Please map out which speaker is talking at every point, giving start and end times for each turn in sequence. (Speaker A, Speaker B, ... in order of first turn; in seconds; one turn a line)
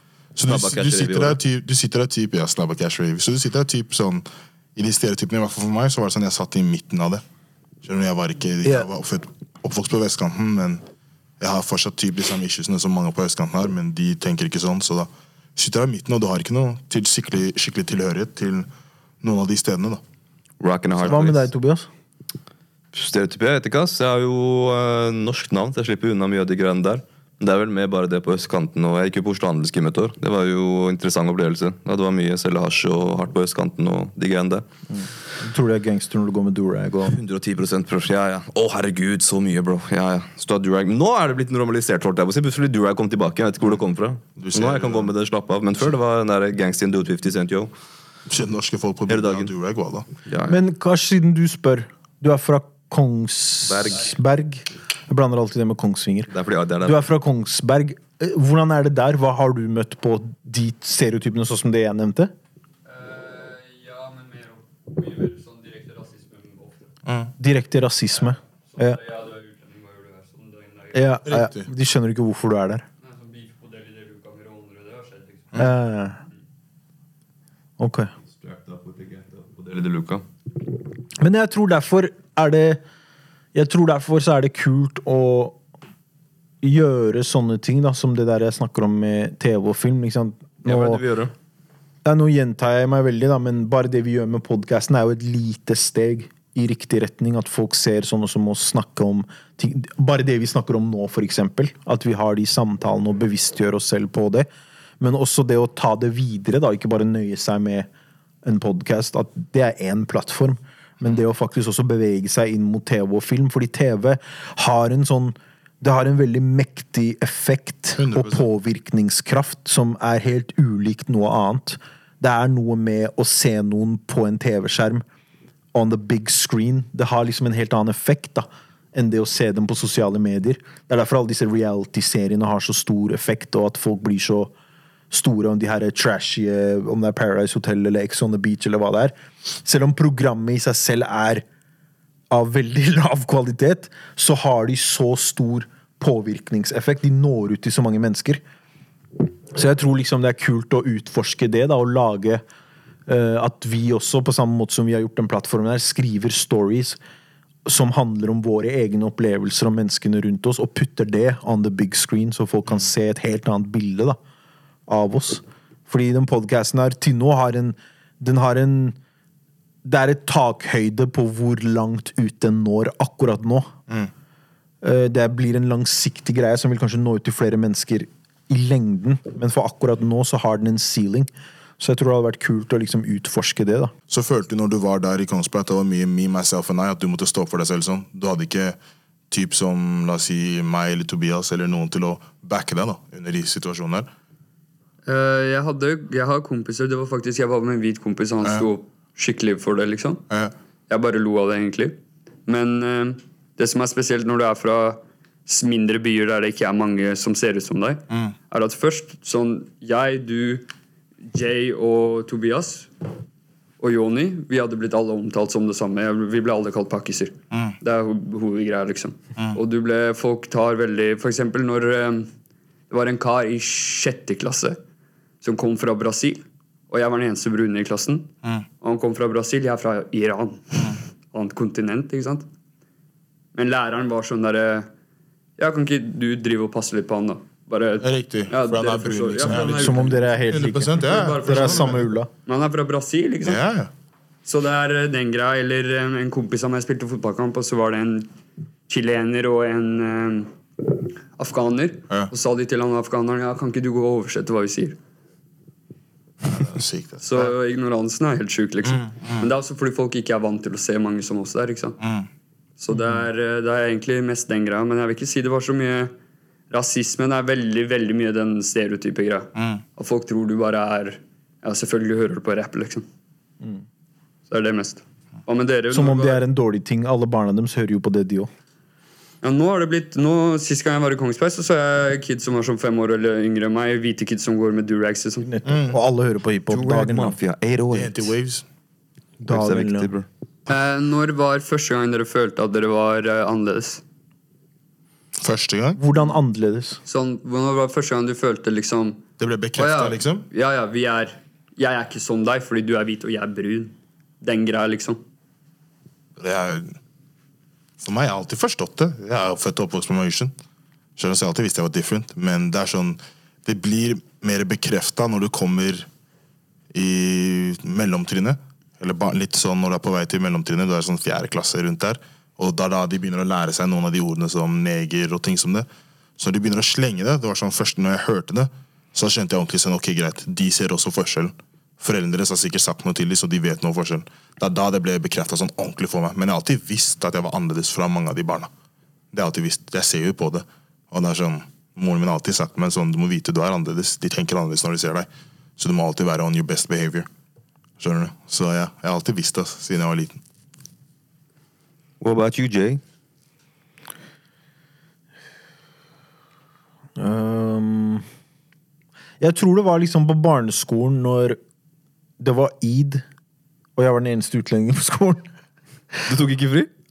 Speaker A: 0.3-7.2
Speaker B: 0.4-1.4
Speaker A: 7.8-10.8
Speaker A: 11.4-18.7
Speaker A: 19.2-20.0
Speaker B: 20.6-21.5
Speaker C: 21.0-21.9
Speaker B: 22.9-34.6
Speaker C: 34.9-37.1
Speaker B: 37.0-47.7
Speaker A: 44.4-45.1
Speaker A: 48.3-50.1
Speaker B: 49.1-49.5
Speaker B: 50.2-50.6
Speaker C: 50.5-56.3
Speaker B: 53.6-54.1
Speaker B: 56.3-57.0
Speaker C: 56.8-62.3
Speaker D: 62.8-66.9
Speaker A: 67.0-67.3
Speaker C: 67.4-69.0
Speaker D: 68.3-71.2
Speaker C: 70.9-72.8
Speaker A: 71.3-71.7
Speaker D: 73.0-75.7
Speaker C: 75.5-76.2
Speaker C: 77.8-78.1
Speaker B: 78.4-80.2
Speaker C: 81.2-82.8
Speaker C: 83.5-85.6
Speaker C: 86.6-91.0
Speaker B: 90.6-91.3
Speaker C: 92.0-104.5
Speaker C: 105.0-107.9
Speaker C: 108.4-125.0
Speaker A: 118.0-118.5
Speaker C: 125.7-134.5
Speaker C: 135.1-141.4
Speaker C: 142.3-148.4
Speaker C: 149.5-152.4
Speaker C: 153.1-157.0
Speaker C: 157.7-164.2
Speaker C: 164.9-168.9
Speaker C: 169.8-173.7
Speaker C: 174.8-181.3
Speaker C: 181.8-183.9
Speaker A: 184.1-188.8
Speaker A: 189.3-194.1
Speaker D: 195.0-200.2
Speaker D: 200.9-210.7
Speaker D: 211.3-212.9
Speaker D: 213.8-222.3
Speaker D: 222.9-224.8
Speaker D: 225.4-228.3
Speaker D: 228.8-232.5
Speaker D: 233.5-234.9
Speaker D: 235.6-240.4
Speaker A: 238.0-242.0
Speaker C: 239.5-242.3
Speaker D: 240.9-243.6
Speaker A: 243.4-243.9
Speaker D: 244.4-248.3
Speaker D: 248.9-250.5
Speaker D: 251.4-255.0
Speaker A: 256.4-257.5
Speaker D: 257.2-262.0
Speaker A: 258.8-259.5
Speaker A: 262.0-262.3
Speaker D: 262.8-266.1
Speaker D: 266.7-273.1
Speaker A: 269.6-269.8
Speaker D: 274.5-276.4
Speaker C: 275.9-278.5
Speaker D: 279.4-285.4
Speaker C: 285.4-287.4
Speaker A: 285.6-286.0
Speaker B: 286.7-288.3
Speaker A: 287.9-288.6
Speaker C: 289.4-290.1
Speaker B: 289.5-290.2
Speaker D: 290.7-294.0
Speaker A: 295.4-296.0
Speaker C: 296.0-297.0
Speaker D: 297.1-299.2
Speaker A: 299.4-300.4
Speaker D: 299.8-305.2
Speaker A: 306.4-306.9
Speaker A: 308.0-310.5
Speaker A: 311.2-316.1
Speaker A: 316.9-325.9
Speaker A: 326.4-338.7
Speaker A: 339.3-347.3
Speaker A: 348.0-350.4
Speaker B: 352.2-353.0
Speaker C: 357.1-358.2
Speaker C: 359.4-361.6
Speaker C: 362.4-363.2
Speaker C: 363.9-365.5
Speaker B: 366.3-366.9